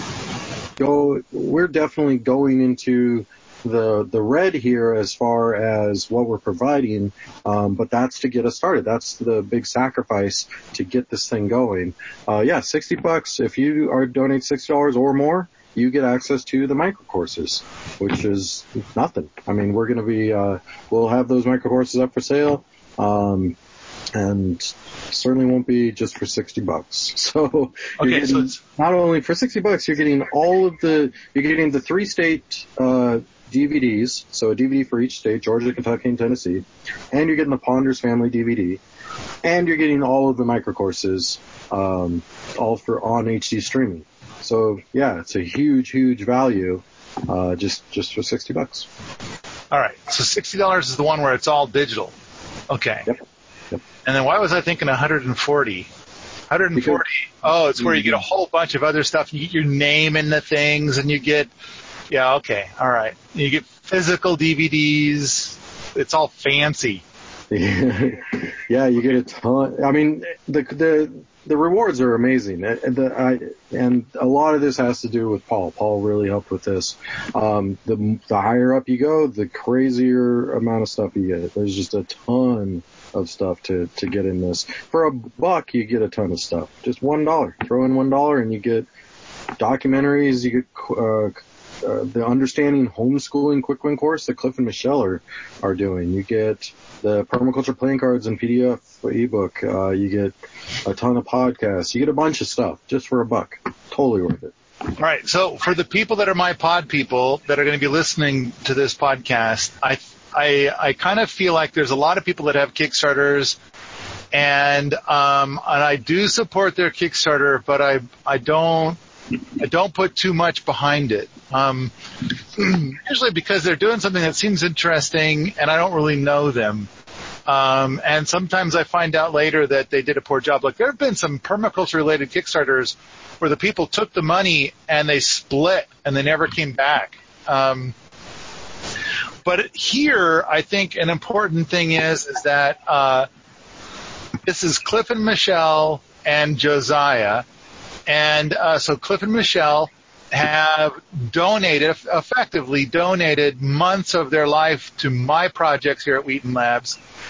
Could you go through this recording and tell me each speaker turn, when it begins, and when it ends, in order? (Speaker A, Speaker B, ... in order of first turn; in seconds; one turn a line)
Speaker A: 0.8-23.6
Speaker A: 24.1-38.8
Speaker B: 28.0-28.6
Speaker A: 39.4-48.9
Speaker B: 49.7-52.1
Speaker B: 52.7-53.1
Speaker B: 54.0-55.9
Speaker B: 56.5-61.5
Speaker A: 56.8-57.0
Speaker A: 57.8-58.2
Speaker B: 62.1-67.0
Speaker A: 67.5-88.9
Speaker A: 89.6-104.5
Speaker B: 105.0-113.5
Speaker B: 114.3-119.0
Speaker B: 119.6-121.9
Speaker B: 122.5-126.9
Speaker B: 127.5-137.9
Speaker B: 139.4-143.3
Speaker B: 144.4-147.4
Speaker B: 148.1-157.0